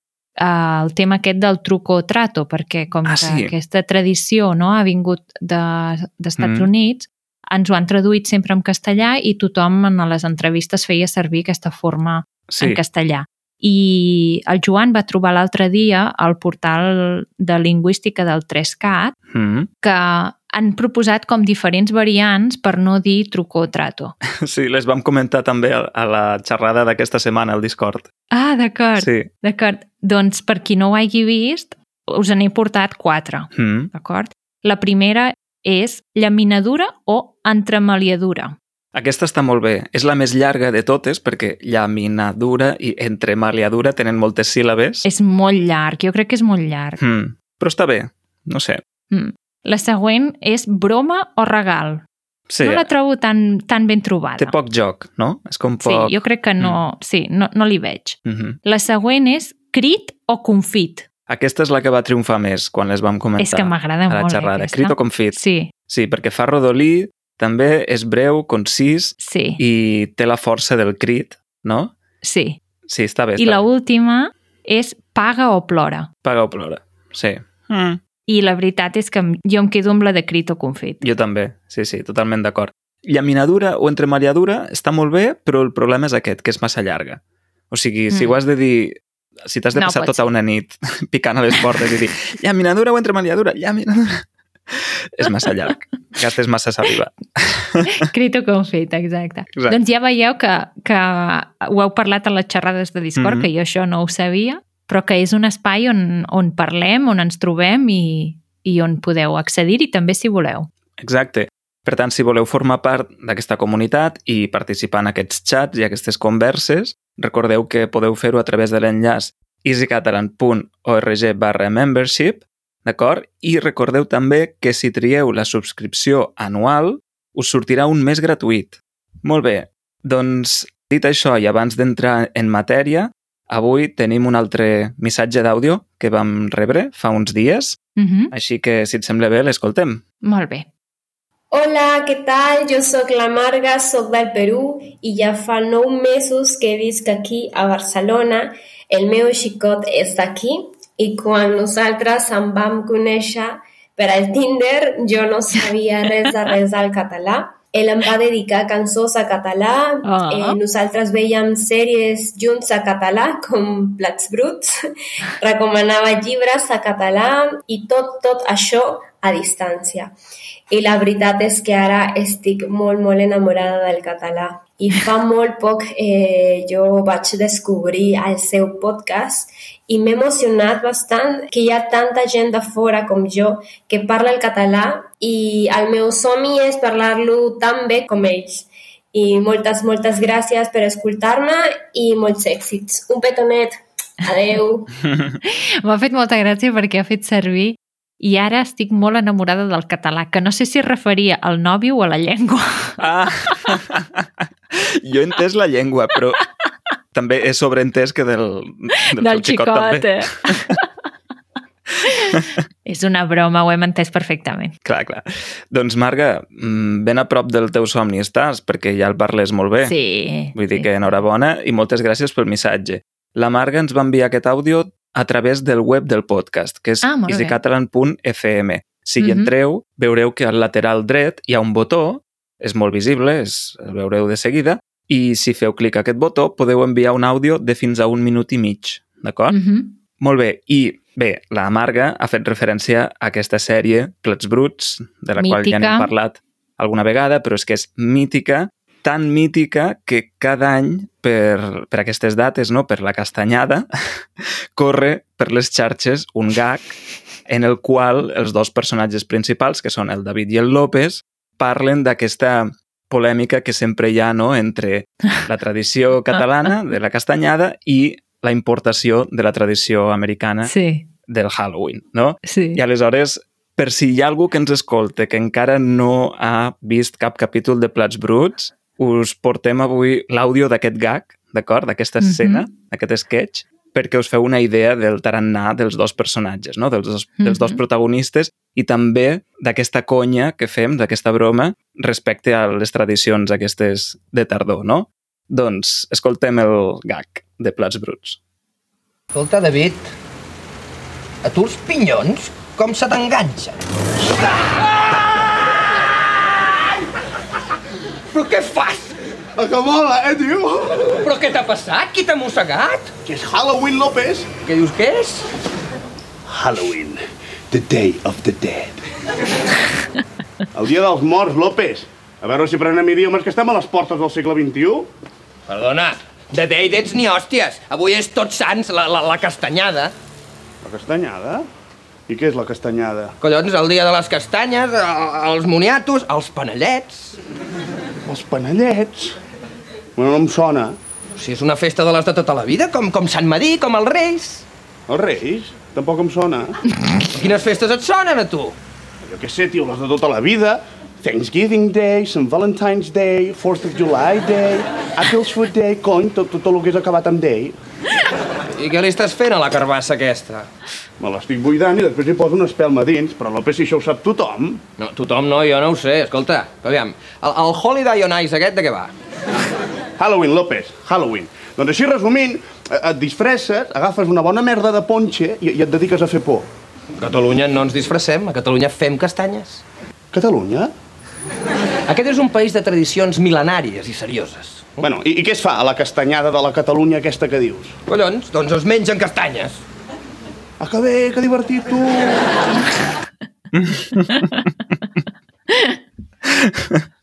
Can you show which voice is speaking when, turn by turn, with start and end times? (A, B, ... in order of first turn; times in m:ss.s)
0:00.4-0:19.1 A
0:03.0-0:03.5 B
0:06.4-0:06.7 B
0:12.5-0:12.8 B
0:19.3-0:19.7 B
0:19.8-0:24.1 A
0:24.3-0:28.1 B
0:28.3-0:38.5 A
0:29.0-0:29.3 B
0:33.5-0:33.9 B
0:38.9-0:45.0 B
0:45.0-0:47.0 A
0:47.0-0:48.8 B
0:49.1-0:52.0 A
0:52.5-0:52.9 B
0:52.6-0:54.5 A
0:54.4-0:56.8 B
0:55.8-1:01.0 A
0:58.2-0:58.6 B
1:01.3-1:05.4 B
1:03.4-1:05.7 A
1:05.9-1:11.9 B
1:09.2-1:09.6 A
1:12.2-1:12.6 A
1:12.9-1:13.6 B
1:13.4-1:16.1 A
1:16.2-1:18.0 B
1:18.3-1:21.0 A
1:21.0-1:37.8 B
1:28.1-1:28.4 A
1:29.7-1:30.2 A
1:38.0-1:50.7 A
1:43.2-1:43.5 B
1:51.0-2:17.8 B
2:18.0-2:18.3 A
2:18.3-2:20.0 B
2:20.2-2:20.7 A
2:21.5-2:44.7 C
2:40.0-2:40.6 A
2:45.4-2:50.1 C
2:50.7-3:14.9 C
3:15.4-3:23.0 A
3:23.0-3:26.4 B
3:27.1-3:30.7 B
3:29.0-3:30.8 A
3:32.2-3:34.7 A
3:34.8-3:39.9 B
3:39.8-3:41.1 A
3:40.5-3:59.6 B
3:47.0-3:47.6 A
3:49.2-3:49.5 A
3:59.5-3:59.9 A
4:00.2-4:13.9 B
4:05.4-4:06.1 A
4:14.4-4:17.0 B
4:17.5-4:30.7 B
4:30.6-4:31.1 A
4:31.3-4:58.4 B
4:32.4-4:32.8 A
4:42.2-4:42.6 A
4:47.4-4:47.8 A
4:59.3-5:00.1 D
5:01.4-5:03.8 D
5:08.3-5:09.2 D
5:09.6-5:11.2 E
5:11.1-5:13.1 D
5:13.2-5:14.5 E
5:14.6-5:15.5 D
5:16.5-5:19.0 E
5:20.7-5:25.1 E
5:25.7-5:30.1 D
5:30.8-5:31.7 E
5:32.3-5:33.3 E
5:33.4-5:37.4 D
5:38.2-5:39.4 E
5:40.2-5:41.0 E
5:41.4-5:44.6 D
5:45.1-5:46.7 E
5:47.3-5:48.7 D
5:49.3-5:57.8 E
5:58.7-6:00.7 D
6:01.2-6:04.8 E
6:05.0-6:09.1 D
6:10.2-6:16.6 E
6:17.2-6:19.8 D
6:20.3-6:20.9 E
6:22.1-6:25.1 D
6:25.0-6:27.9 E
6:28.1-6:29.8 D
6:30.8-6:32.4 E
6:33.7-6:34.5 B
6:34.3-6:34.6 A
6:35.7-6:35.9 A
6:36.4-6:37.0 B